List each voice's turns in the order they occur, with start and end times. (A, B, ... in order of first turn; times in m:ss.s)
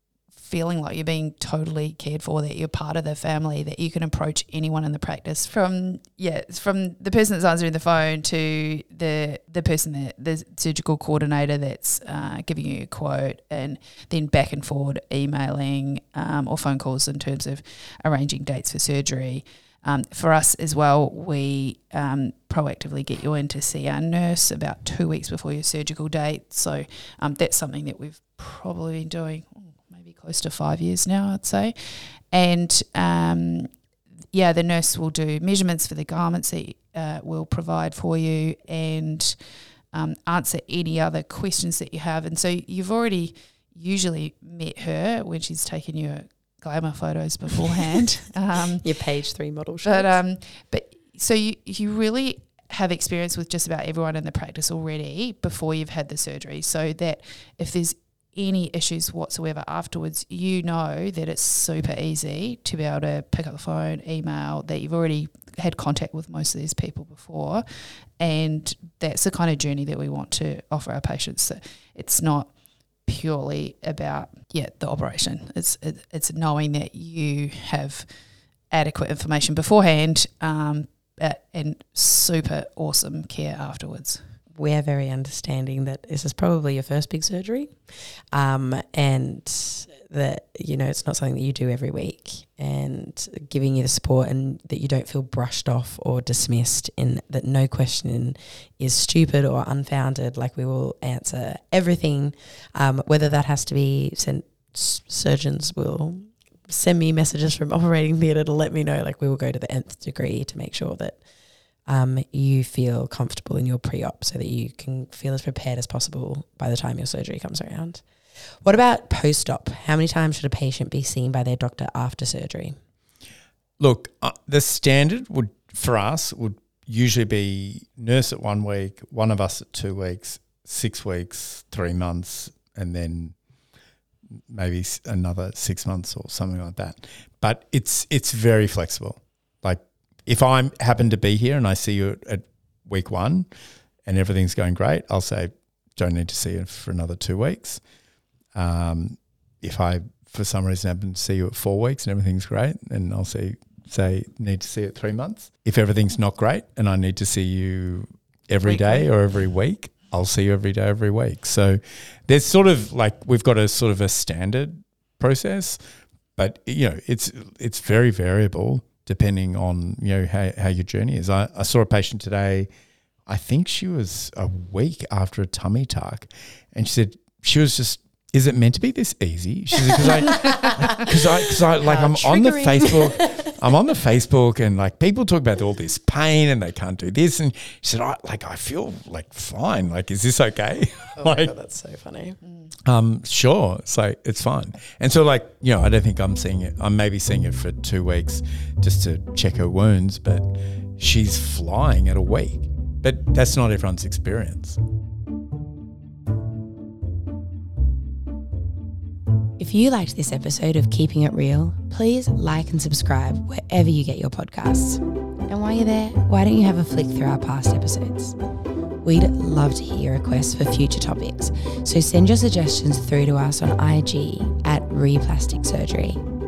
0:00.4-0:33.7 A
0:34.3-0:39.4 A
0:39.9-0:48.8 A
0:48.8-0:50.1 B
0:49.8-1:07.6 A
1:08.2-1:12.5 A
1:13.0-1:18.1 A
1:18.7-1:24.2 A
1:24.5-1:51.2 B
1:51.9-1:58.0 B
1:58.6-2:02.7 B
2:03.8-2:13.3 C
2:14.5-2:23.5 C
2:24.0-2:27.8 C
2:28.5-2:45.8 C
2:38.7-2:39.1 A
2:46.4-2:52.7 C
2:53.3-3:11.5 C
3:00.3-3:01.0 B
3:01.8-3:03.5 B
3:11.2-3:12.4 B
3:12.8-3:24.8 C
3:29.6-3:38.4 B
3:39.0-3:46.2 B